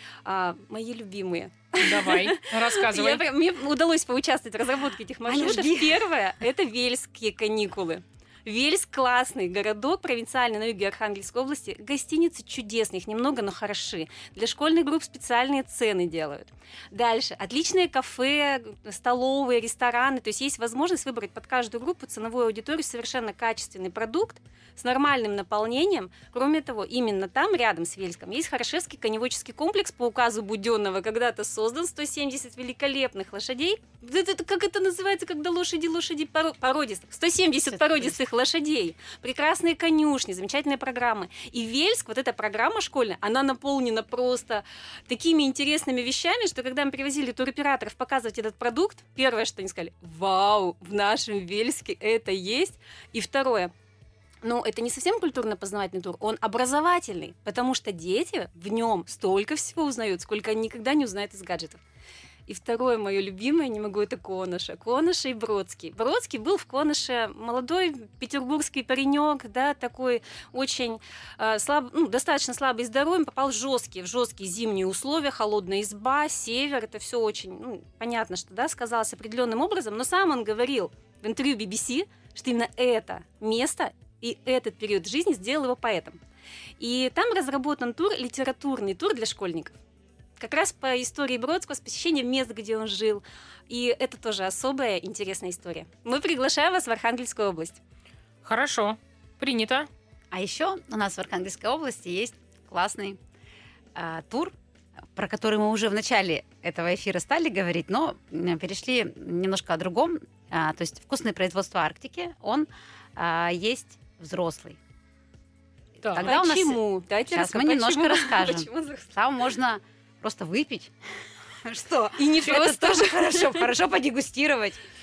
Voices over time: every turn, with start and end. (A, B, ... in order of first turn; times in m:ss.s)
0:00.2-0:53.7 A
0:01.8-0:03.2 B
0:05.2-0:06.0 C
0:37.7-0:38.2 C
0:54.4-1:01.8 A
1:02.5-1:26.2 A
1:26.8-1:29.7 A
1:30.4-1:37.8 A
1:38.4-1:39.9 B
1:40.3-1:43.2 C
1:43.9-1:44.5 C
1:45.1-1:54.8 C
1:56.0-1:56.4 B
1:56.1-2:00.9 C
1:56.2-1:59.1 A
2:01.6-2:04.8 C
2:02.2-2:03.7 A